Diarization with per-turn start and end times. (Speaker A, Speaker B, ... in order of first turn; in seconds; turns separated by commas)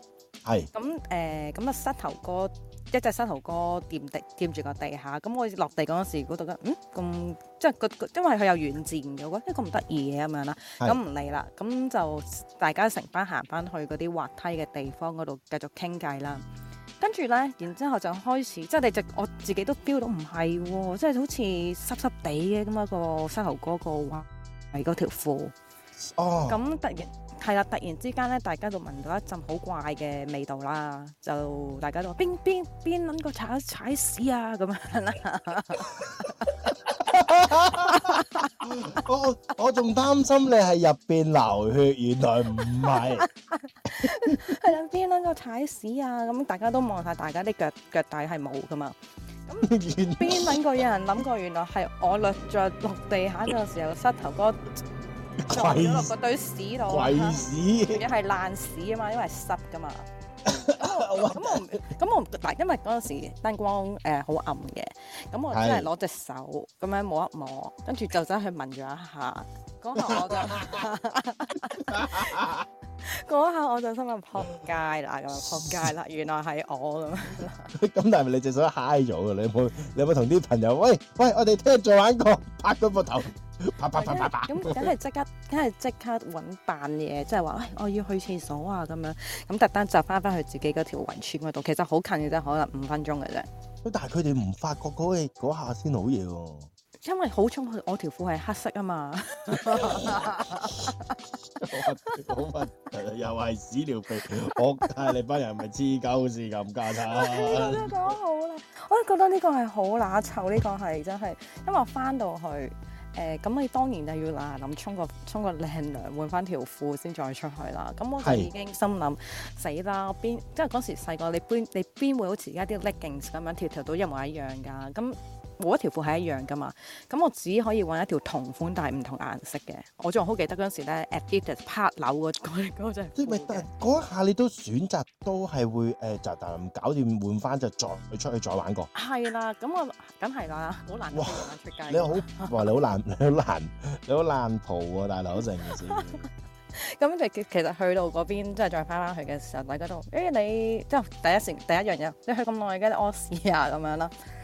Speaker A: 0.4-0.7, Speaker B: 0.7-16.4, Speaker B: 17.0-25.5, Speaker A: 26.0-26.6, Speaker B: 26.5-36.5, Speaker A: 37.0-43.2, Speaker B: 37.6-38.5, Speaker B: 43.1-48.9, Speaker A: 44.3-44.5, Speaker B: 49.5-54.6, Speaker A: 49.6-50.6, Speaker A: 55.4-56.1, Speaker B: 55.5-60.1, Speaker A: 56.9-58.0, Speaker A: 60.5-61.8, Speaker B: 60.8-72.3, Speaker A: 65.5-65.9, Speaker A: 70.0-70.8, Speaker A: 71.9-72.6, Speaker B: 73.0-77.7, Speaker A: 75.3-75.9, Speaker A: 77.7-84.9, Speaker B: 84.0-93.5, Speaker A: 93.8-96.7, Speaker B: 97.0-101.2, Speaker A: 99.7-100.3, Speaker A: 101.6-108.1, Speaker B: 101.7-102.2, Speaker B: 107.1-133.7, Speaker A: 118.2-118.5, Speaker A: 133.2-138.9, Speaker B: 138.9-142.5, Speaker A: 141.1-146.2, Speaker B: 145.9-146.2, Speaker B: 146.8-154.1